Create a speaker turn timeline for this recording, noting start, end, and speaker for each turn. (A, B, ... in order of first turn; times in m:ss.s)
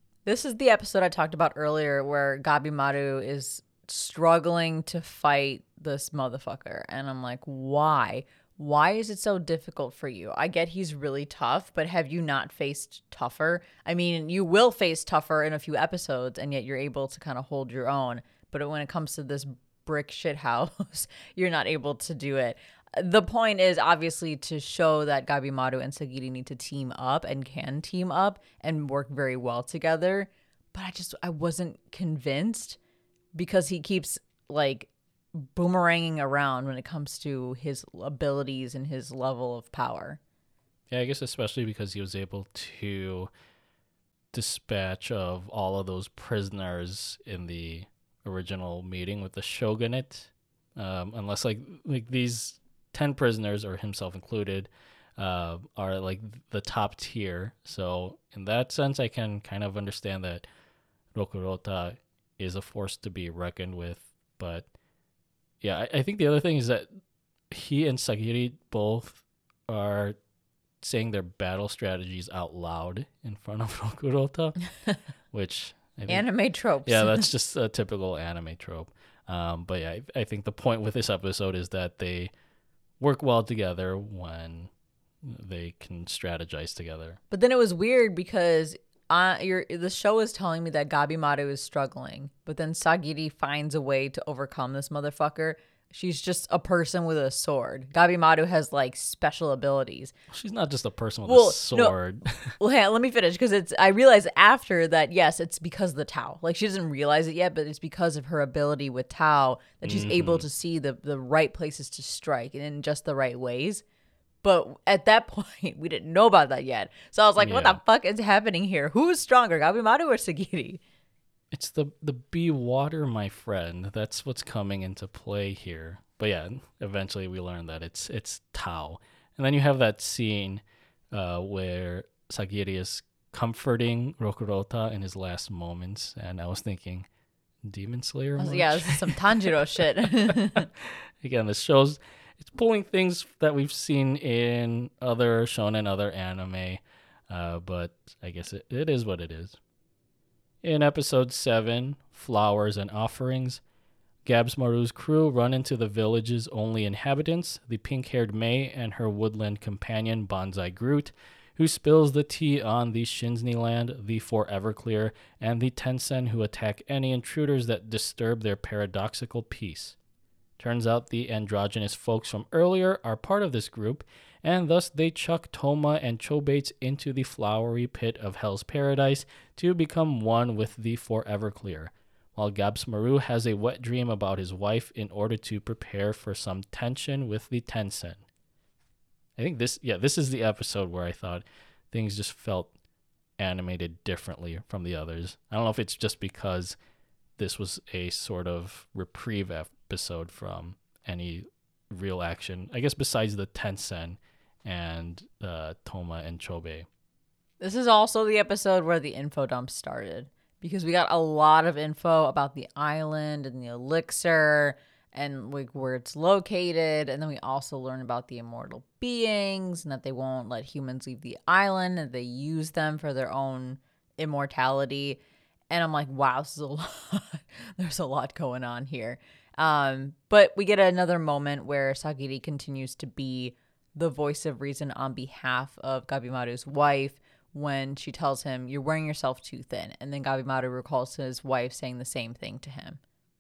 0:00.3-0:32.8 A
0:33.4-0:40.2 A
0:40.9-0:43.3 B
0:44.3-1:00.5 B
1:01.1-1:04.7 B
1:05.6-1:06.9 B
1:07.5-1:10.2 B
1:10.8-1:14.6 B
1:15.3-1:16.2 B
1:16.1-1:17.3 A
1:16.8-1:22.3 B
1:23.0-1:24.7 B
1:25.2-1:27.2 B
1:27.3-1:40.1 A
1:40.3-1:42.6 B
1:41.3-1:42.0 A
1:42.6-1:53.8 A
1:49.8-1:50.5 B
1:54.4-2:00.8 A
1:57.4-1:57.8 B
2:01.5-2:10.6 B
2:11.1-2:17.1 B
2:17.6-2:19.5 B
2:18.4-2:20.7 A
2:20.2-2:29.6 B
2:30.6-2:33.6 B
2:34.2-2:50.0 B
2:50.6-3:08.3 B
3:09.4-3:12.7 B
3:13.4-3:16.8 B
3:17.4-3:26.9 B
3:27.6-4:03.0 A